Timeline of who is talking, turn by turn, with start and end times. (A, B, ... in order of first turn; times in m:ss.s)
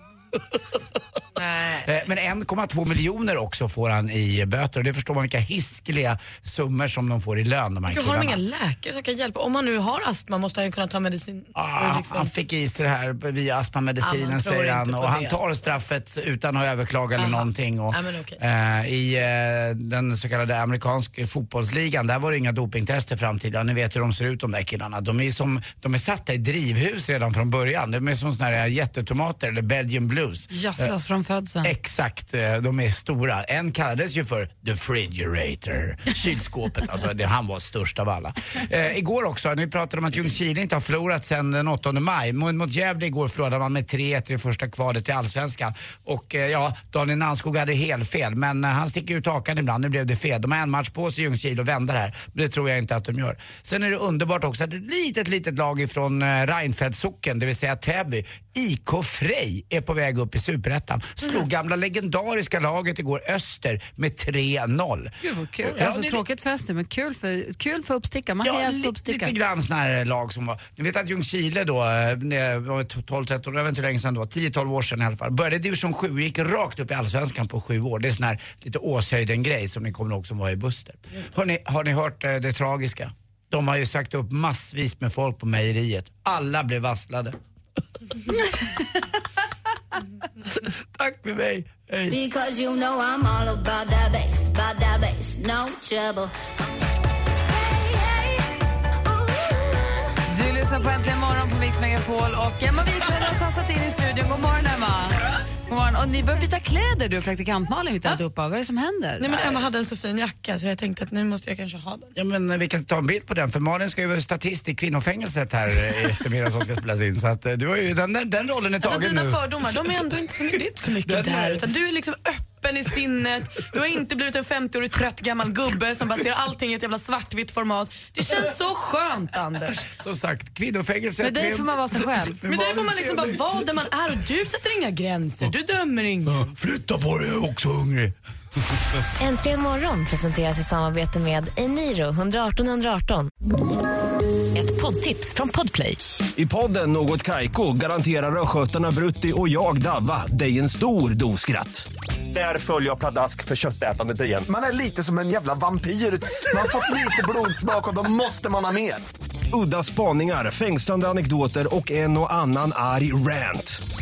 0:00.3-0:08.4 A
0:01.4-0:01.8 B
0:07.9-0:12.3 B
0:11.5-0:30.9 A
0:14.0-0:15.6 B
0:17.2-0:18.4 B
0:30.5-0:31.7 C
0:31.6-1:06.2 A
1:05.2-1:09.3 C
1:08.4-1:27.4 A
1:28.3-1:28.8 A
1:30.4-1:32.2 A
1:32.1-1:36.3 D
1:37.6-1:38.4 E
1:40.3-1:49.6 C
1:49.2-1:52.1 B
1:52.1-2:00.3 A
1:58.8-2:09.9 B
2:01.0-2:01.7 A
2:09.9-2:13.5 A
2:11.2-2:12.4 C
2:12.4-2:16.5 B
2:16.3-2:18.1 A
2:18.8-2:19.0 A
2:19.2-2:23.3 E
2:24.8-2:25.8 E
2:26.4-2:34.4 F
2:34.5-2:39.0 G
2:39.5-2:43.8 F